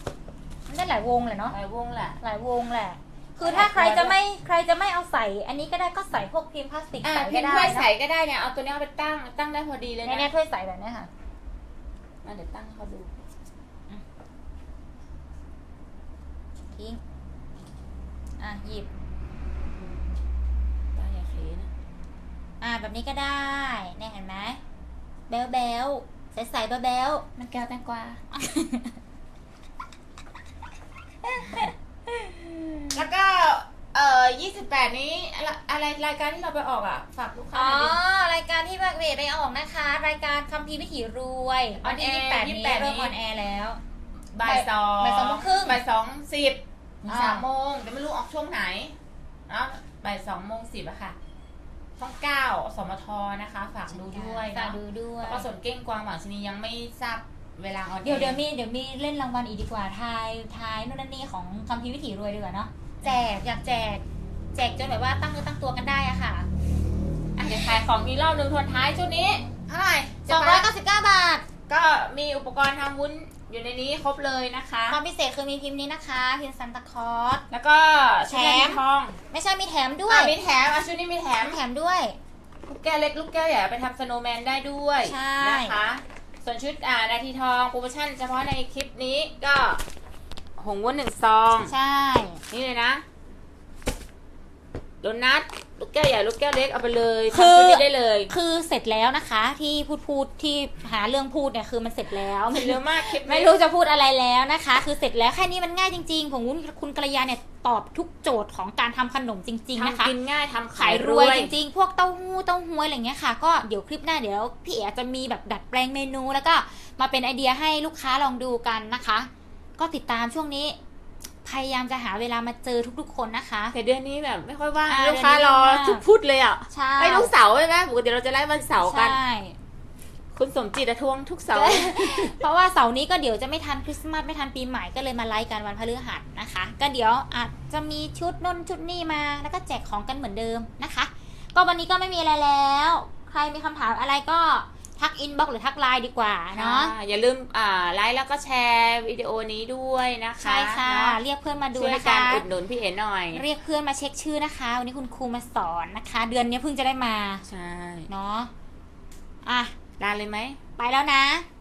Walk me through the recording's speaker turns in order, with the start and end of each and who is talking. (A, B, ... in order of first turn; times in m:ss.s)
0:00.7-0:01.6 A
0:01.5-0:02.2 B
0:02.2-0:07.9 A
0:03.4-0:04.2 B
0:07.0-0:10.3 B
0:10.0-0:11.1 A
0:12.2-0:13.2 B
0:16.7-0:17.0 A
0:18.4-0:18.9 A
0:20.9-0:21.7 B
0:22.6-0:24.6 A
0:25.3-0:27.2 A
0:27.4-0:28.2 B
0:28.3-0:29.0 A
0:31.2-0:33.0 A
0:32.9-0:38.0 B
0:37.5-0:43.8 A
0:41.8-0:43.1 B
0:44.3-0:49.0 B
0:44.4-0:45.8 A
0:47.0-0:47.4 A
0:49.5-0:51.2 B
0:52.0-0:58.4 B
0:53.9-0:55.4 A
0:58.0-1:04.0 A
1:04.5-1:06.5 A
1:07.4-1:10.7 B
1:10.2-1:11.4 A
1:11.7-1:15.0 B
1:14.9-1:17.4 A
1:17.5-1:19.2 B
1:18.2-1:20.3 A
1:20.1-1:21.6 B
1:21.4-1:22.2 A
1:22.6-1:29.8 B
1:25.0-1:25.8 A
1:30.6-1:31.7 B
1:31.6-1:32.4 A
1:32.5-1:33.0 B
1:35.0-1:38.3 B
1:37.3-1:50.1 A
1:42.5-1:43.6 B
1:49.8-1:51.5 B
1:50.8-2:00.8 A
2:01.4-2:03.7 A
2:03.7-2:09.2 B
2:04.9-2:06.0 A
2:06.7-2:07.3 A
2:08.8-2:09.6 A
2:10.3-2:12.3 B
2:11.5-2:26.9 A
2:26.5-2:31.2 B
2:30.4-2:32.4 A
2:31.7-2:33.4 B
2:33.3-2:37.4 A
2:37.4-2:38.1 B
2:38.1-2:38.5 A
2:39.4-2:39.7 A
2:40.0-2:40.6 B
2:40.8-2:41.4 A